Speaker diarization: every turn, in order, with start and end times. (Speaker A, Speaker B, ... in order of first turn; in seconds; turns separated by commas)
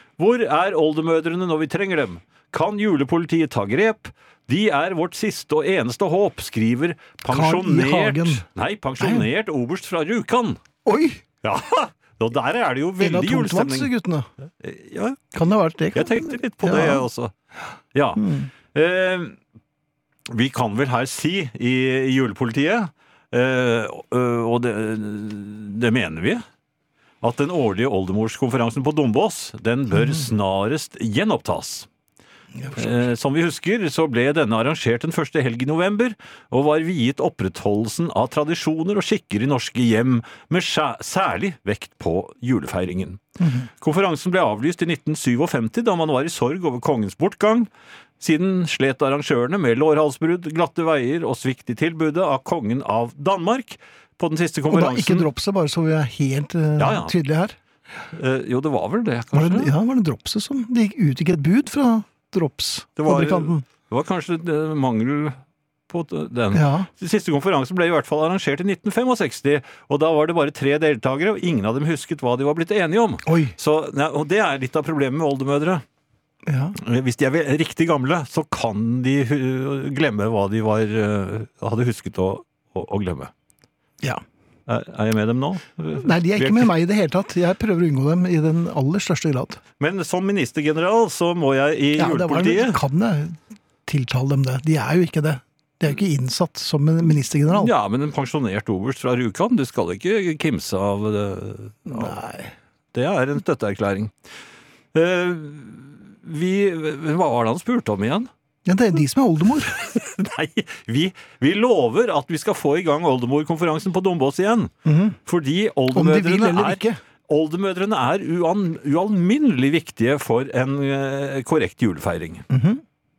Speaker A: 0.2-10.6, Speaker B: 7.3-8.4, Speaker B: 9.0-9.3, Speaker B: 10.9-11.2, Speaker A: 11.4-13.9, Speaker B: 13.0-14.3, Speaker A: 14.6-15.2, Speaker B: 15.3-17.1, Speaker A: 15.9-17.3, Speaker A: 17.9-19.4, Speaker B: 18.2-18.5, Speaker A: 20.3-26.4, Speaker A: 27.2-31.9, Speaker B: 29.9-30.2, Speaker B: 32.6-33.0, Speaker A: 32.8-43.2, Speaker B: 43.4-43.7, Speaker A: 43.8-47.7, Speaker A: 48.2-55.3, Speaker B: 54.7-57.6, Speaker A: 56.8-57.1, Speaker A: 58.1-59.7, Speaker B: 59.3-63.6, Speaker A: 63.0-65.4, Speaker A: 65.9-75.8, Speaker B: 66.5-66.9, Speaker B: 73.2-73.6, Speaker B: 76.5-76.8, Speaker A: 76.8-83.3, Speaker A: 84.7-86.7, Speaker B: 86.0-89.6, Speaker A: 89.8-92.8, Speaker B: 92.0-97.7, Speaker A: 97.5-102.2, Speaker B: 101.9-102.5, Speaker A: 102.9-104.1, Speaker A: 104.9-108.3, Speaker B: 108.7-109.8, Speaker A: 109.8-114.7, Speaker B: 114.9-115.2, Speaker A: 115.3-122.5, Speaker B: 115.9-117.0, Speaker B: 122.5-122.8